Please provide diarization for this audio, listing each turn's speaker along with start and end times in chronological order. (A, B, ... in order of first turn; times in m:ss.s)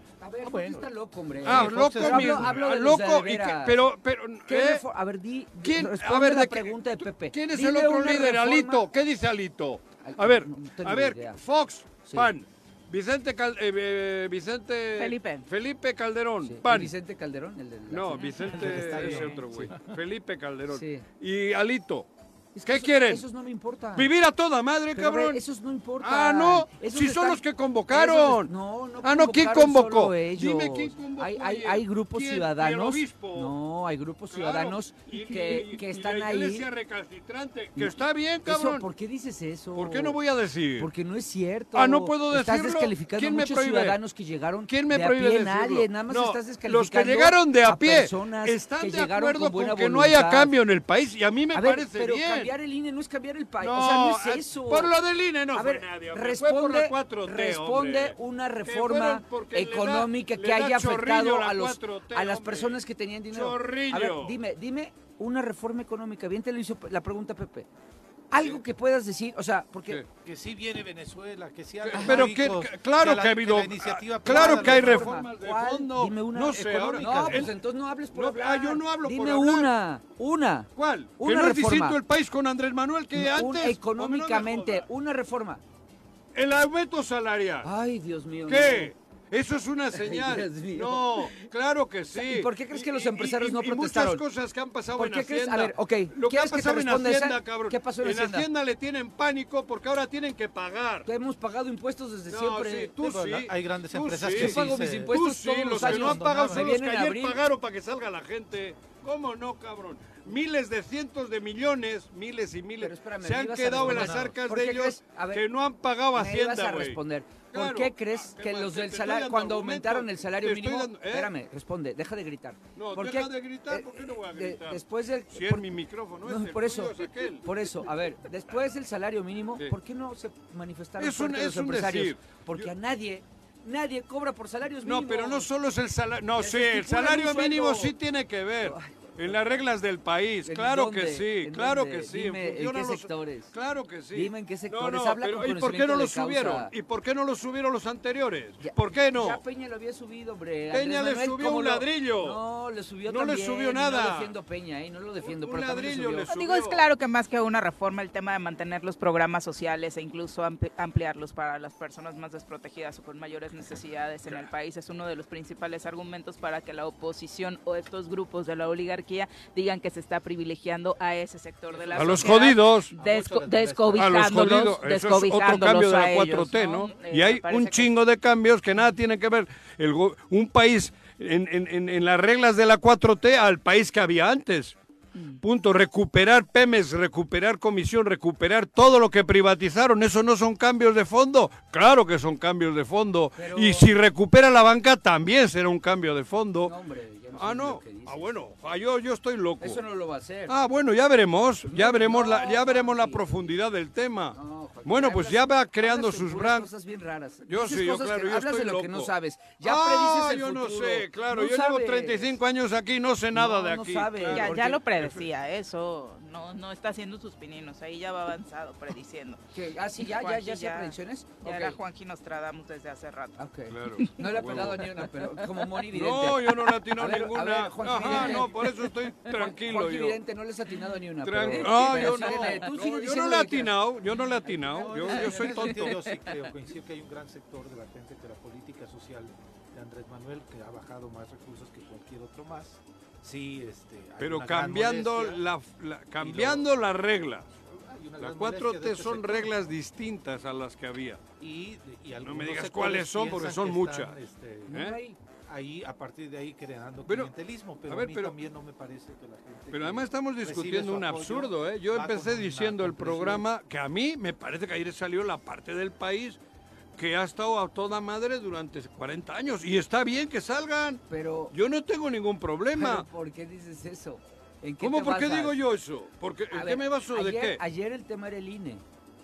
0:00.2-0:03.8 A
0:00.4-0:02.6 B
0:01.4-0:04.8 C
0:04.5-0:08.8 A
0:05.6-0:16.9 C
0:10.0-0:11.4 A
0:12.0-0:12.3 A
0:15.0-0:15.4 D
0:16.4-0:19.7 A
0:17.9-0:22.1 C
0:18.2-0:19.3 D
0:18.5-0:19.9 B
0:20.7-0:21.0 A
0:22.5-0:24.1 A
0:22.6-0:23.2 C
0:23.9-0:25.4 C
0:24.9-0:36.7 A
0:26.0-0:33.6 C
0:34.3-0:38.8 C
0:37.8-0:40.2 A
0:39.7-0:40.9 C
0:40.8-0:50.5 A
0:41.7-0:44.0 C
0:44.7-0:52.5 C
0:51.5-0:55.0 A
0:53.6-1:04.4 C
0:55.5-1:07.7 A
1:08.3-1:10.0 A
1:10.2-1:15.3 B
1:11.8-1:17.6 C
1:11.9-1:12.3 A
1:14.2-1:22.0 A
1:16.8-1:17.5 B
1:18.1-1:19.7 C
1:20.8-1:24.9 C
1:23.1-1:25.6 A
1:26.3-1:27.7 C
1:27.6-1:28.9 A
1:28.4-1:41.1 C
1:29.9-1:31.4 A
1:32.1-1:34.2 A
1:35.0-1:38.5 A
1:41.0-1:43.0 A
1:42.3-2:01.3 C
1:43.0-1:46.8 B
1:44.2-1:47.4 A
1:52.8-1:55.4 A
1:53.7-1:54.4 B
1:56.1-2:05.7 A
2:02.8-2:07.9 C
2:06.2-2:15.5 A
2:11.0-2:12.7 C
2:14.8-2:29.4 C
2:16.4-2:17.9 A
2:18.6-2:19.6 A
2:20.4-2:23.5 A
2:24.1-2:26.7 A
2:28.6-2:36.3 A
2:30.7-2:32.4 C
2:33.0-2:34.4 C
2:35.2-2:36.8 C
2:36.3-2:57.9 D
2:51.9-2:52.3 B
2:51.9-2:52.9 C
2:52.9-2:54.5 B
2:53.9-3:04.8 C
3:05.2-3:05.4 D
3:05.4-3:16.7 C
3:13.4-3:13.9 A
3:16.6-3:18.3 A
3:17.3-3:19.8 C
3:19.6-3:20.5 A
3:20.5-3:26.7 C
3:21.6-3:23.2 A
3:24.3-3:32.4 A
3:27.4-3:35.2 C
3:33.3-3:34.8 A
3:34.3-3:39.4 D
3:39.5-3:41.8 A
3:40.0-3:43.4 D
3:43.4-3:53.8 A
3:43.7-3:44.9 C
3:44.0-3:44.7 D
3:45.9-3:50.2 C
3:51.2-3:56.0 C
3:52.0-3:52.3 B
3:54.4-3:55.9 A
3:54.6-4:05.4 B
4:04.2-4:11.2 C
4:06.2-4:06.7 B
4:07.8-4:09.7 B
4:11.4-4:23.4 B
4:12.2-4:14.2 C
4:14.7-4:15.0 C
4:14.7-4:15.2 A
4:17.0-4:17.3 C
4:17.8-4:18.4 C
4:19.7-4:26.4 C
4:27.0-4:33.1 C
4:31.1-4:31.5 A
4:32.7-4:35.6 A
4:34.8-4:37.6 C
4:36.5-4:38.8 A